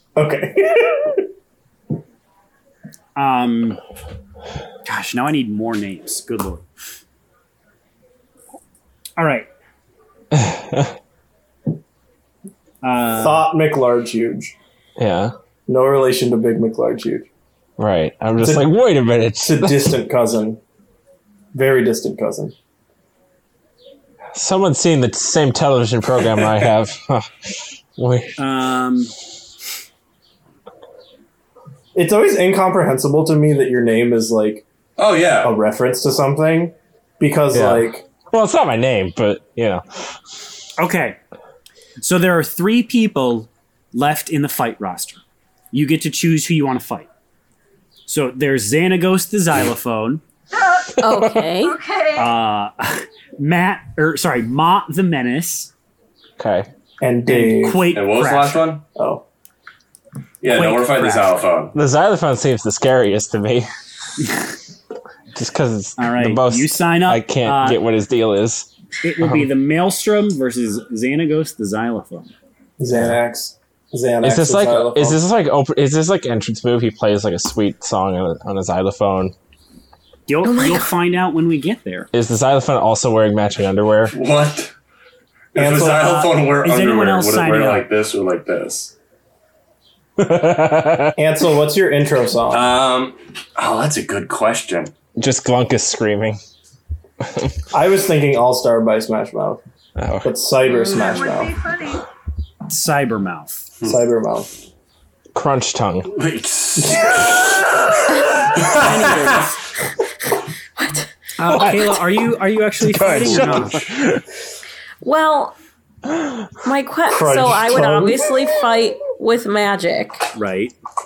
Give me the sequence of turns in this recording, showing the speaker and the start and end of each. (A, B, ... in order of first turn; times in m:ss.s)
0:00.2-0:01.2 A
0:03.2-0:03.8 B
0:04.8-0:06.7 B
0:09.2-0:09.5 B
0:10.3-0:11.0 C
0:12.8-0:13.5 B
0:13.2-0:14.5 A
0:15.0-0:15.3 C
0:15.7-0:17.3 A
0:17.8-0:20.0 C
0:18.4-0:18.7 A
0:19.4-0:20.6 A
0:21.5-0:22.5 A
0:24.4-0:27.3 C
0:28.0-0:28.4 C
0:28.4-0:29.1 B
0:32.0-0:34.6 A
0:35.0-0:35.5 D
0:35.4-0:38.0 A
0:37.5-0:39.8 C
0:40.8-0:41.2 B
0:42.0-0:47.1 B
0:48.1-0:50.2 B
0:51.0-0:51.8 E
0:51.0-0:51.4 C
0:51.6-0:52.3 F
0:52.1-0:55.7 B
0:56.4-0:56.7 C
0:57.0-0:57.9 A
0:57.3-0:58.7 B
0:57.9-0:58.8 D
0:59.0-0:59.2 A
1:00.4-1:01.7 D
1:00.5-1:01.4 B
1:01.7-1:03.7 C
1:04.2-1:04.6 B
1:05.3-1:08.7 C
1:06.0-1:07.8 B
1:09.0-1:12.3 B
1:09.2-1:09.5 C
1:12.8-1:15.2 A
1:14.2-1:19.3 C
1:20.3-1:22.1 B
1:20.4-1:20.9 E
1:22.1-1:24.1 C
1:24.1-1:24.7 D
1:25.5-1:28.9 D
1:25.6-1:26.2 A
1:25.8-1:27.9 B
1:30.2-1:31.2 C
1:31.2-1:32.7 A
1:32.5-1:34.9 D
1:35.2-1:36.4 C
1:37.7-1:39.6 A
1:40.0-1:40.3 C
1:40.2-1:41.5 A
1:40.7-1:41.3 E
1:40.8-1:42.0 F
1:42.7-1:43.7 B
1:43.8-1:44.5 A
1:45.3-1:46.1 C
1:46.1-1:49.5 D
1:46.8-1:47.2 A
1:48.6-1:49.6 B
1:50.8-1:51.6 E
1:51.4-1:53.8 B
1:52.8-1:54.2 C
1:55.0-1:55.5 E
1:56.6-2:00.3 E
1:57.1-1:58.4 A
2:00.3-2:00.7 B